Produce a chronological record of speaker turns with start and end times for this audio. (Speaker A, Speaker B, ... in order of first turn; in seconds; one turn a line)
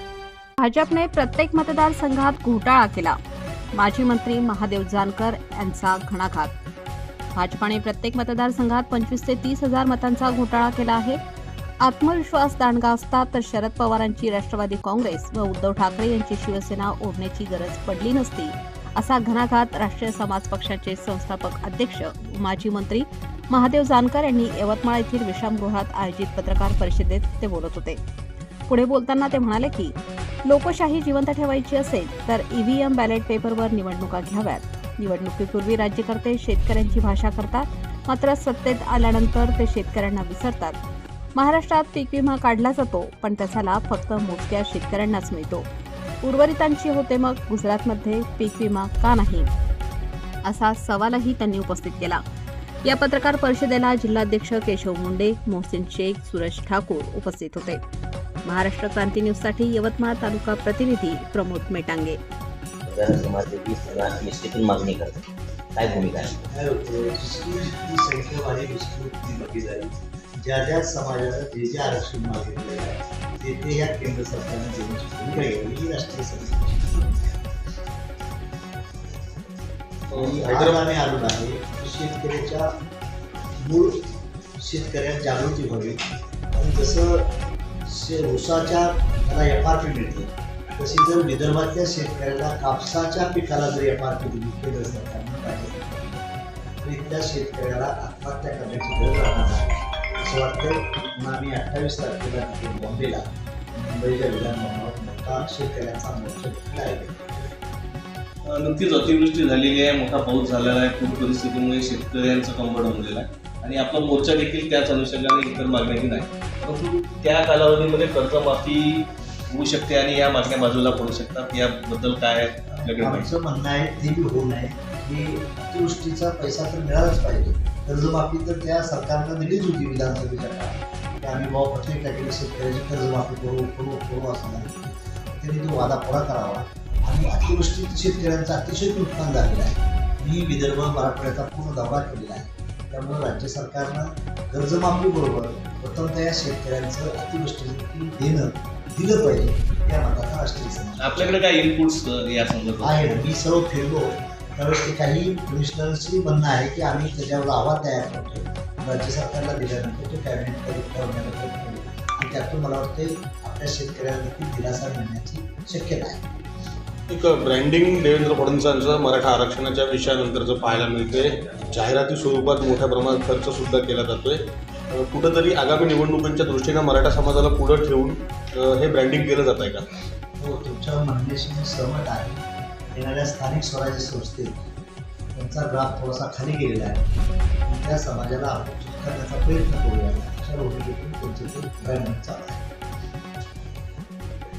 Speaker A: 0.6-3.2
Speaker A: 3.7-6.5
Speaker A: 7.3-11.2
Speaker A: 11.8-28.0
Speaker A: 28.7-40.8
Speaker A: 41.3-45.7
Speaker A: 46.2-49.5
Speaker A: 50.4-52.2
Speaker A: 52.8-57.8
Speaker A: 58.4-62.2
Speaker B: 62.8-66.5
Speaker C: 66.5-77.2
Speaker D: 80.1-80.8
Speaker C: 80.1-82.7
Speaker C: 83.6-84.1
Speaker C: 84.6-86.0
Speaker C: 86.5-96.2
Speaker C: 96.8-107.5
Speaker E: 108.5-123.3
Speaker C: 122.7-151.4
Speaker E: 151.0-153.1
Speaker C: 152.8-166.2
Speaker D: 167.1-174.4
Speaker D: 174.9-179.8
Speaker C: 180.4-184.6
Speaker C: 185.3-187.1
Speaker C: 187.6-192.7